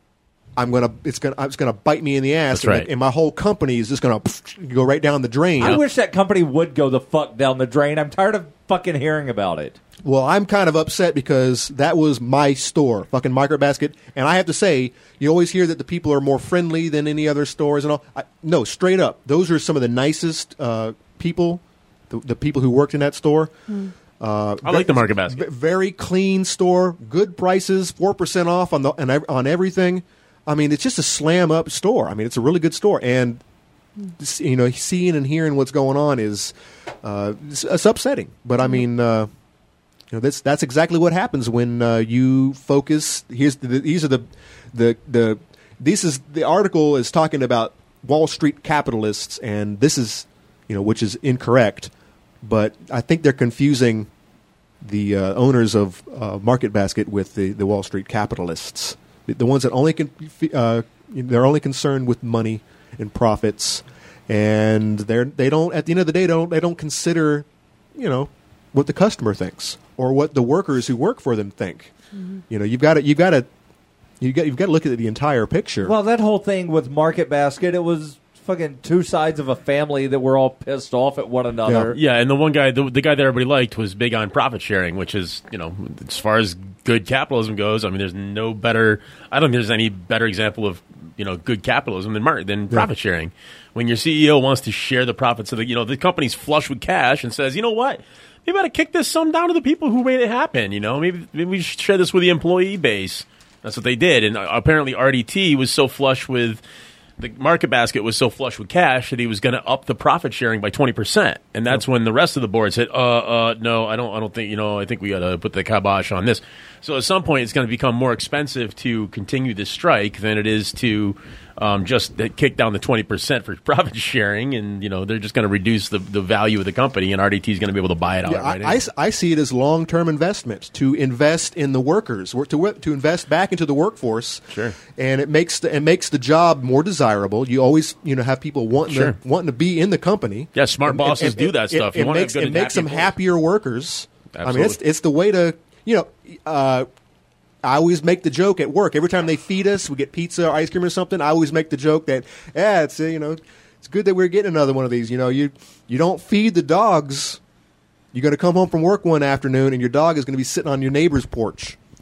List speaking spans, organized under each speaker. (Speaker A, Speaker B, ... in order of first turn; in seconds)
Speaker A: 0.6-5.8, 10.0-23.5, 24.2-33.4, 34.1-39.3, 40.1-51.9, 52.4-54.1, 54.8-71.9, 72.5-73.5, 74.2-75.9, 81.6-82.0, 128.2-146.9, 147.6-157.4, 158.1-161.8
Speaker B: 2.5-2.9, 24.6-25.4, 81.9-106.6, 107.2-128.8, 134.5-134.8, 138.9-139.2, 140.6-143.1, 144.3-144.8
Speaker C: 5.6-9.8, 75.8-82.0